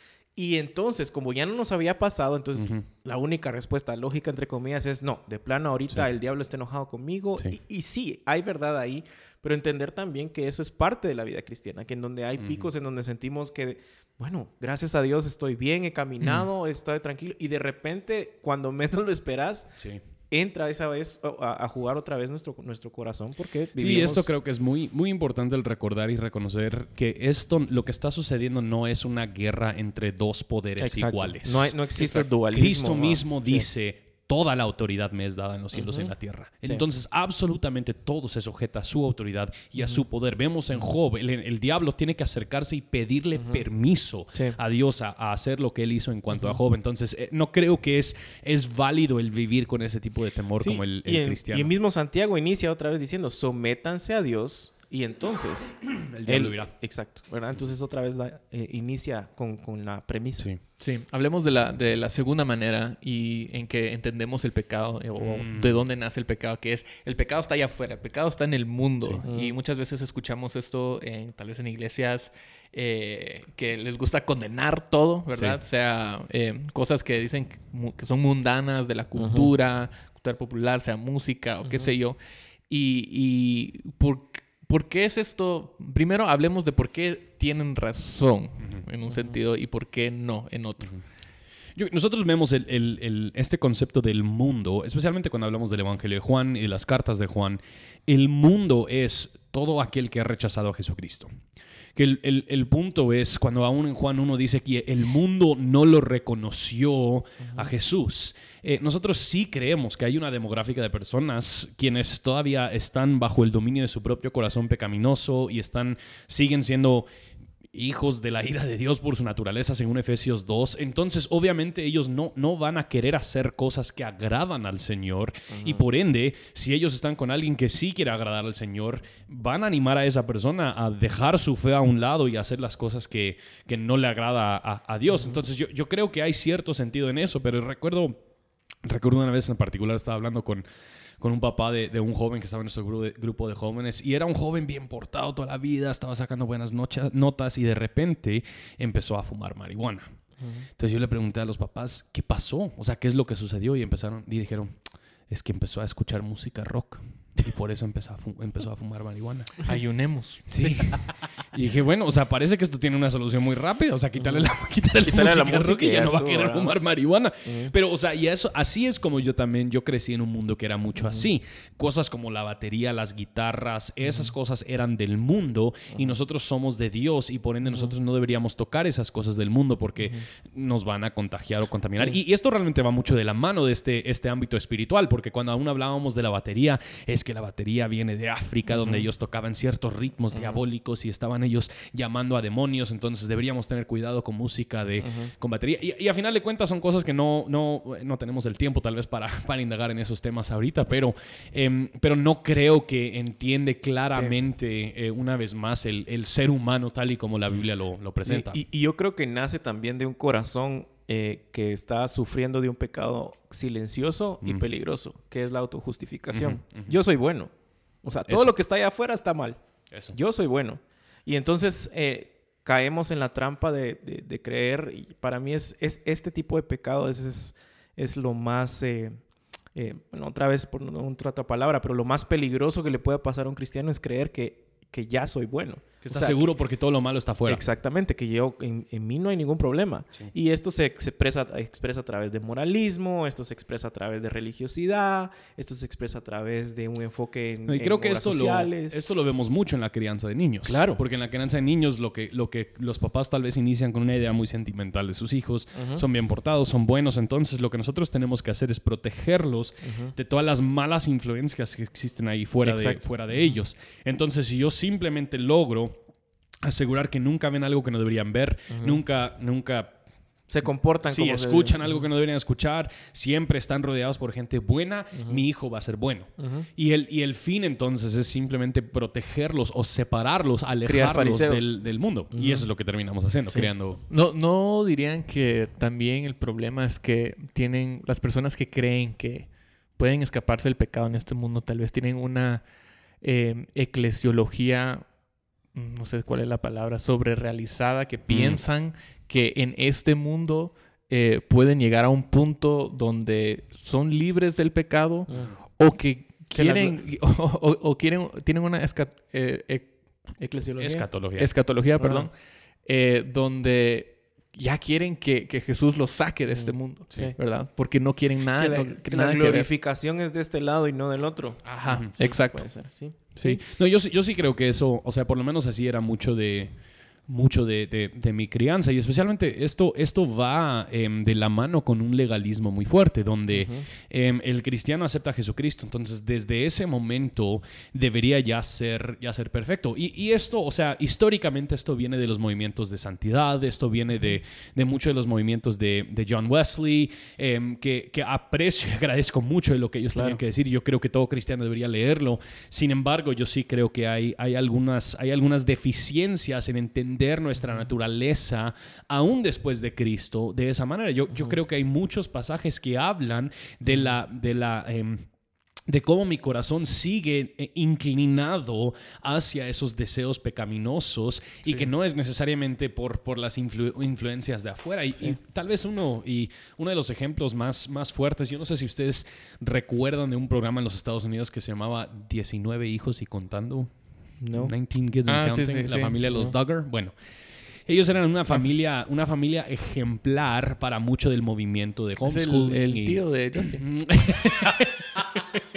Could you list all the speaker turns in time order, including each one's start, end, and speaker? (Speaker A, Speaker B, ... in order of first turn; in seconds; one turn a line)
Speaker A: 0.3-19.7
Speaker B: 2.6-2.8
Speaker B: 12.4-12.7
Speaker A: 20.3-24.3
Speaker B: 23.8-51.7
Speaker A: 30.8-33.7
Speaker A: 35.7-36.1
Speaker A: 43.4-43.6
Speaker A: 50.6-60.5
Speaker B: 55.9-56.7
Speaker C: 60.8-82.2
Speaker B: 65.2-65.8
Speaker A: 69.3-69.5
Speaker A: 79.2-79.5
Speaker A: 81.6-81.9
Speaker C: 82.7-90.9
Speaker A: 89.1-89.3
Speaker B: 91.8-101.3
Speaker B: 102.0-117.1
Speaker B: 117.7-138.2
Speaker A: 125.5-125.9
Speaker A: 135.1-135.4
Speaker B: 138.8-140.6
Speaker B: 141.2-150.1
Speaker B: 150.8-154.8
Speaker B: 155.3-159.7
Speaker C: 159.7-160.7
Speaker B: 160.5-208.6
Speaker A: 164.2-164.5
Speaker A: 165.0-166.9
Speaker A: 167.4-167.7
Speaker A: 171.0-171.3
Speaker A: 174.1-174.3
Speaker A: 175.9-176.2
Speaker A: 181.9-182.2
Speaker A: 188.7-189.1
Speaker A: 190.3-190.6
Speaker A: 195.0-195.3
Speaker A: 208.2-217.5
Speaker B: 216.3-217.0
Speaker A: 218.0-219.6
Speaker B: 219.9-220.2
Speaker A: 220.1-229.2
Speaker A: 229.8-236.4
Speaker B: 236.1-237.6
Speaker A: 237.5-249.1
Speaker B: 247.7-266.0
Speaker A: 250.7-251.0
Speaker A: 255.8-256.1
Speaker A: 259.9-260.1
Speaker A: 262.6-263.6
Speaker B: 266.6-269.9
Speaker A: 268.7-269.0
Speaker A: 270.5-271.9
Speaker B: 271.0-284.0
Speaker A: 275.1-275.4
Speaker A: 276.4-276.7
Speaker A: 280.8-281.7
Speaker A: 282.3-282.7
Speaker C: 284.1-292.6
Speaker C: 293.2-295.1
Speaker C: 295.7-309.9
Speaker B: 298.3-298.6
Speaker A: 306.5-307.0
Speaker A: 310.4-311.1
Speaker B: 310.8-311.5
Speaker C: 311.4-312.3
Speaker A: 312.0-312.3
Speaker C: 312.9-319.7
Speaker A: 316.5-317.4
Speaker A: 318.6-323.5
Speaker C: 321.6-322.7
Speaker B: 323.4-326.8
Speaker B: 327.3-365.3
Speaker A: 333.5-333.9
Speaker A: 350.1-350.4
Speaker A: 363.9-364.2
Speaker B: 365.9-383.9
Speaker A: 371.6-371.9
Speaker A: 384.4-384.7
Speaker B: 384.5-387.1
Speaker C: 385.3-386.5
Speaker B: 387.9-393.2
Speaker C: 392.2-393.8
Speaker B: 393.8-395.4